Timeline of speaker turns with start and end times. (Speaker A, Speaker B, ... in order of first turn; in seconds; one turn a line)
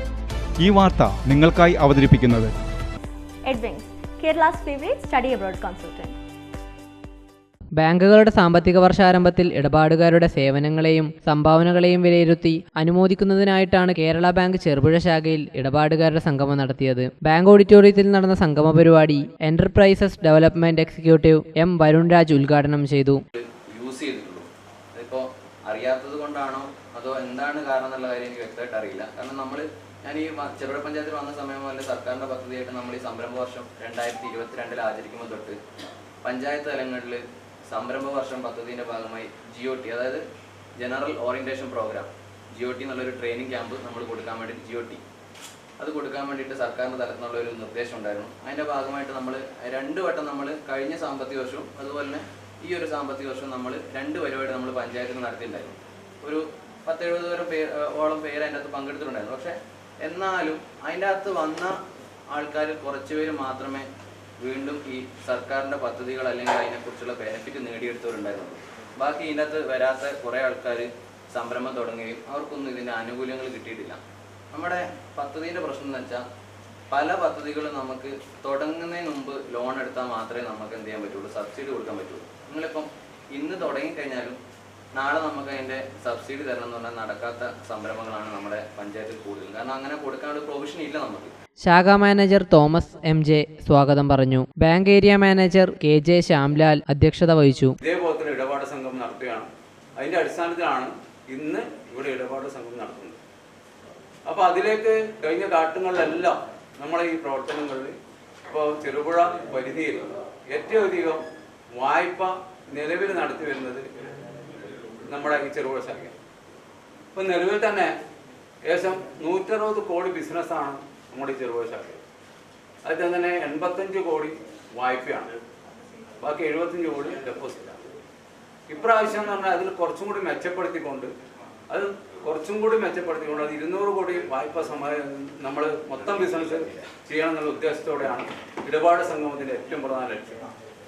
Speaker A: 0.6-2.5
Speaker B: 3.4-6.2
Speaker C: 7.8-23.2
Speaker D: 23.3-35.6
Speaker D: 36.2-40.2
Speaker D: 40.8-45.0
Speaker D: 45.8-61.7
Speaker D: 62.3-63.9
Speaker D: 64.4-74.0
Speaker D: 74.5-76.2
Speaker D: 76.9-84.4
Speaker D: 84.9-91.3
Speaker C: 91.6-97.8
Speaker E: 97.8-103.2
Speaker E: 104.2-108.0
Speaker E: 108.5-113.9
Speaker E: 115.1-116.1
Speaker E: 117.1-117.9
Speaker E: 118.6-122.0
Speaker E: 122.8-125.3
Speaker E: 126.2-127.8
Speaker E: 128.7-131.1
Speaker E: 131.7-140.5